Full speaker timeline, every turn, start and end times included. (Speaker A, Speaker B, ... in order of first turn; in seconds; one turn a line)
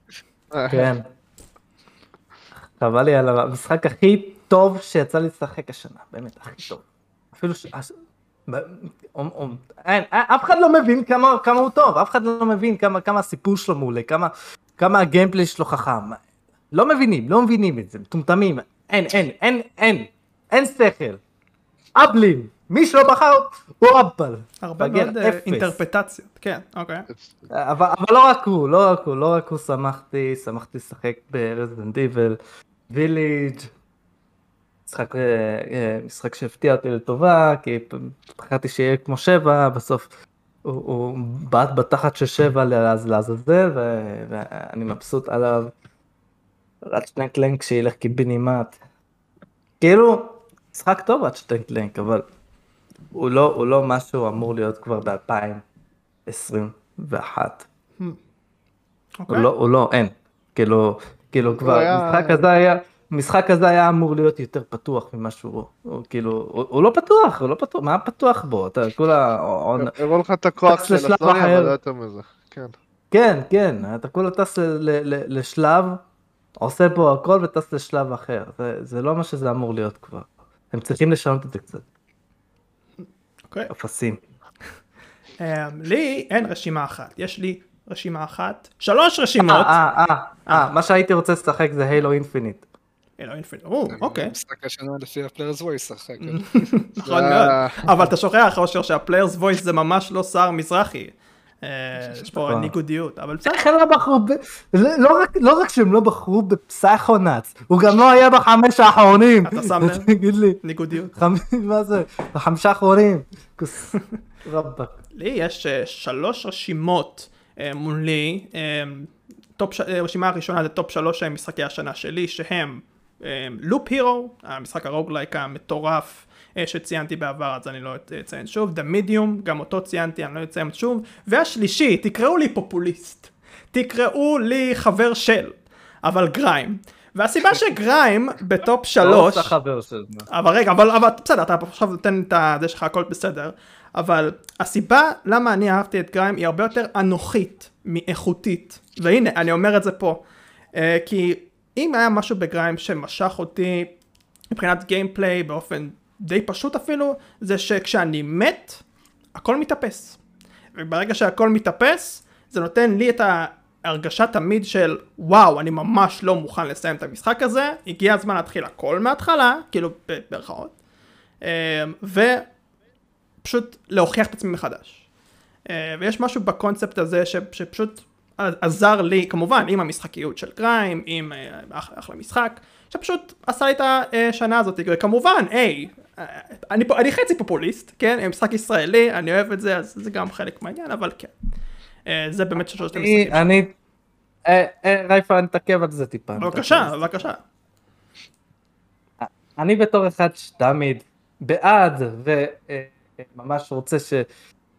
Speaker A: 0.5-0.9
Speaker B: 0.7-1.1
Speaker B: 2.8-8.0
Speaker B: 8.5-21.2
Speaker B: 22.0-25.8
Speaker C: 24.6-27.1
Speaker A: 27.1-27.5
Speaker B: 27.5-32.4
Speaker B: 32.9-33.7
Speaker B: 34.9-40.1
Speaker B: 40.6-45.7
Speaker B: 46.9-48.8
Speaker B: 49.8-52.2
Speaker B: 53.1-55.6
Speaker B: 56.3-57.7
Speaker C: 59.2-59.5
Speaker B: 59.3-69.9
Speaker A: 61.6-62.4
Speaker A: 69.8-72.7
Speaker B: 70.7-71.8
Speaker B: 73.1-76.0
Speaker B: 76.6-81.9
Speaker C: 83.0-83.7
Speaker B: 83.7-84.2
Speaker C: 85.4-89.8
Speaker B: 89.4-92.6
Speaker C: 93.2-94.3
Speaker D: 93.9-96.7
Speaker C: 96.2-103.6
Speaker A: 97.0-97.8
Speaker B: 102.3-102.7
Speaker B: 103.5-110.6
Speaker C: 109.4-110.1
Speaker C: 110.6-111.2
Speaker B: 111.1-115.0
Speaker C: 115.2-139.6
Speaker B: 139.0-140.3
Speaker C: 140.3-150.2
Speaker C: 150.7-153.9
Speaker C: 154.5-158.8
Speaker C: 159.3-160.2
Speaker C: 160.8-170.8
Speaker C: 171.4-172.4
Speaker C: 173.4-175.0
Speaker C: 175.7-191.3
Speaker C: 192.1-193.6
Speaker B: 192.9-193.7
Speaker B: 194.4-197.3
Speaker C: 196.4-197.4
Speaker B: 199.2-204.2